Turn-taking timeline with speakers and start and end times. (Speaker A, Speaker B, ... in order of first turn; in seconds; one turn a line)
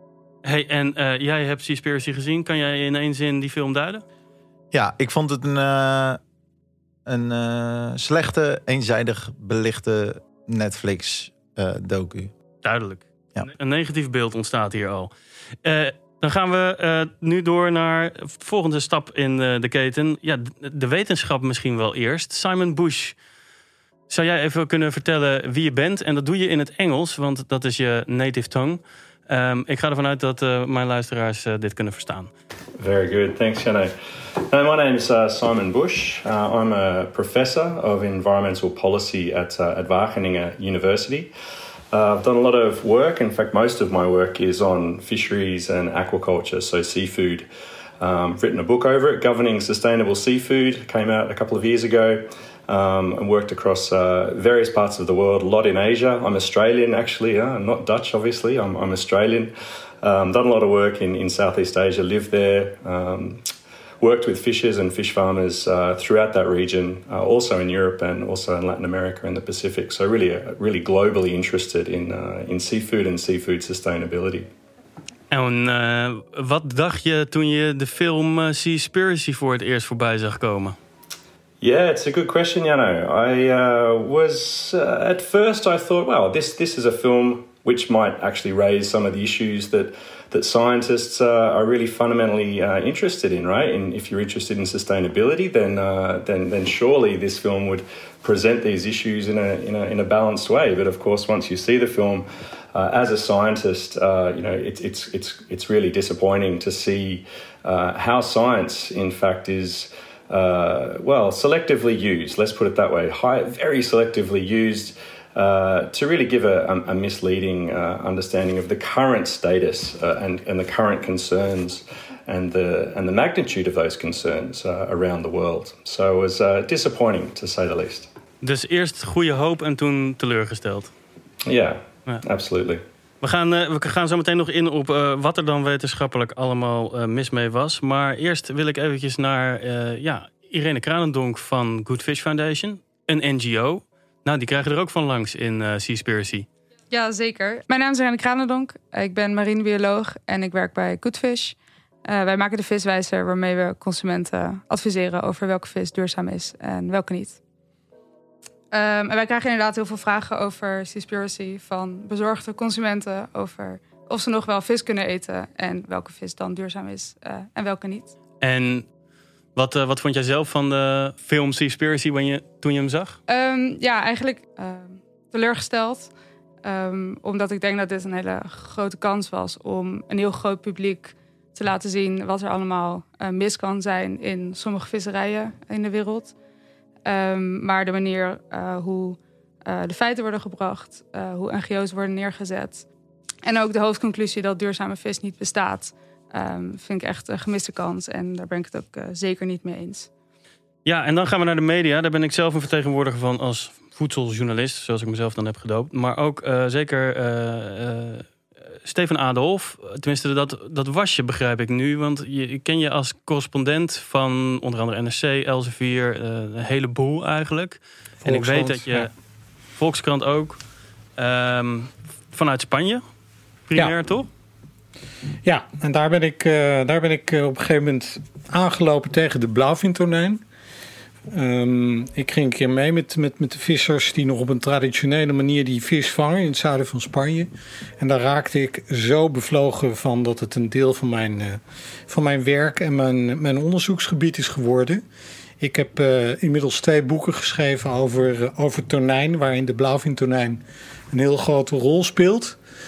Speaker A: 0.4-4.0
Speaker B: 4.7-6.2
Speaker B: 7.0-12.3
Speaker A: 12.6-15.1
Speaker A: 15.6-23.2
Speaker A: 24.1-32.3
Speaker C: 32.8-33.9
Speaker C: 34.5-41.3
Speaker C: 41.9-47.5
Speaker C: 48.0-63.4
Speaker C: 64.0-74.5
Speaker A: 75.3-80.8
Speaker C: 81.6-128.1
Speaker A: 128.4-130.9
Speaker C: 131.4-132.8
Speaker A: 133.2-146.5
Speaker D: 146.9-157.4
Speaker D: 158.7-168.1
Speaker A: 168.4-168.9
Speaker A: 169.5-173.2
Speaker D: 173.3-176.1
Speaker D: 176.6-186.3
Speaker D: 187.0-192.8
Speaker D: 193.4-200.1
Speaker A: 200.8-208.3
Speaker A: 208.8-219.1
Speaker E: 218.2-219.1
Speaker A: 219.8-220.6
Speaker A: 221.2-223.0
Speaker A: 223.7-224.3
Speaker E: 225.4-230.4
Speaker E: 231.3-245.0
Speaker E: 245.6-252.6